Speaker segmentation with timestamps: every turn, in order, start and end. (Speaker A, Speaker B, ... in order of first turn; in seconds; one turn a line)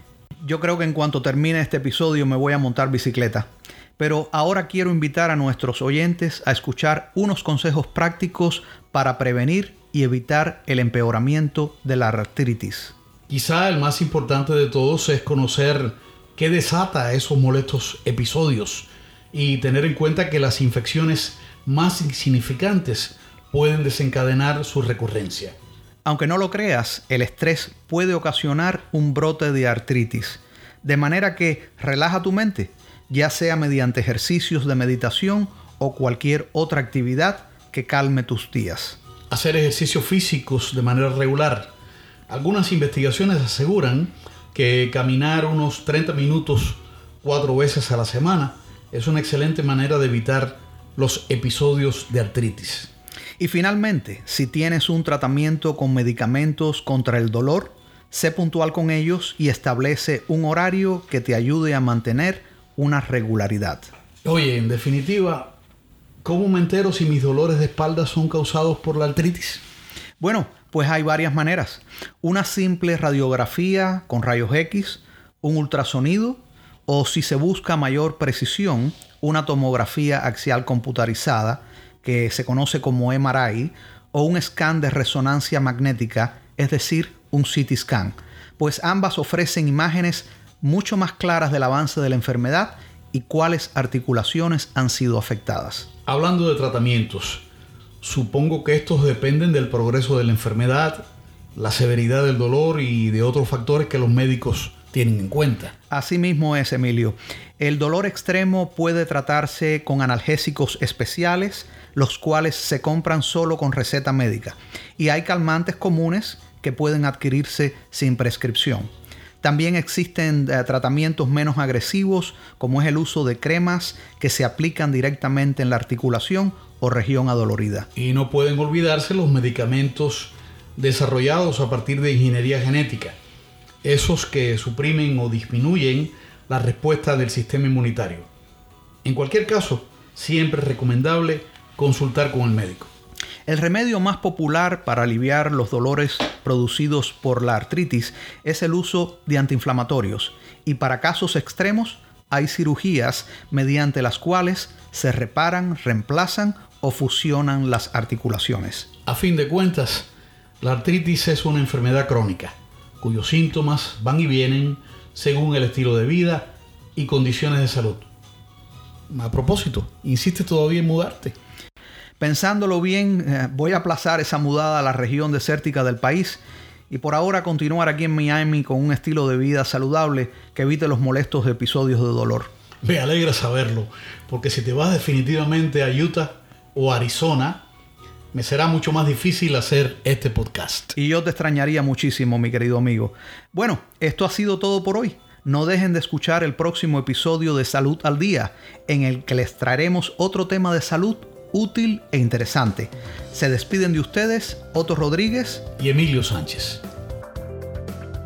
Speaker A: 0.4-12.9
Speaker B: 13.3-25.6
Speaker A: 26.1-39.0
Speaker B: 39.3-41.7
Speaker B: 42.3-52.9
Speaker A: 53.4-63.9
Speaker B: 64.2-65.5
Speaker B: 66.2-69.6
Speaker A: 70.2-95.9
Speaker B: 96.1-97.4
Speaker B: 98.0-105.7
Speaker A: 105.9-118.9
Speaker A: 119.4-127.9
Speaker B: 128.0-133.2
Speaker B: 133.8-138.3
Speaker B: 139.1-142.9
Speaker A: 143.5-158.9
Speaker B: 159.1-160.1
Speaker B: 160.6-168.1
Speaker B: 169.1-171.3
Speaker A: 172.2-182.5
Speaker B: 182.8-187.6
Speaker B: 188.3-190.9
Speaker A: 190.9-205.6
Speaker B: 205.8-206.8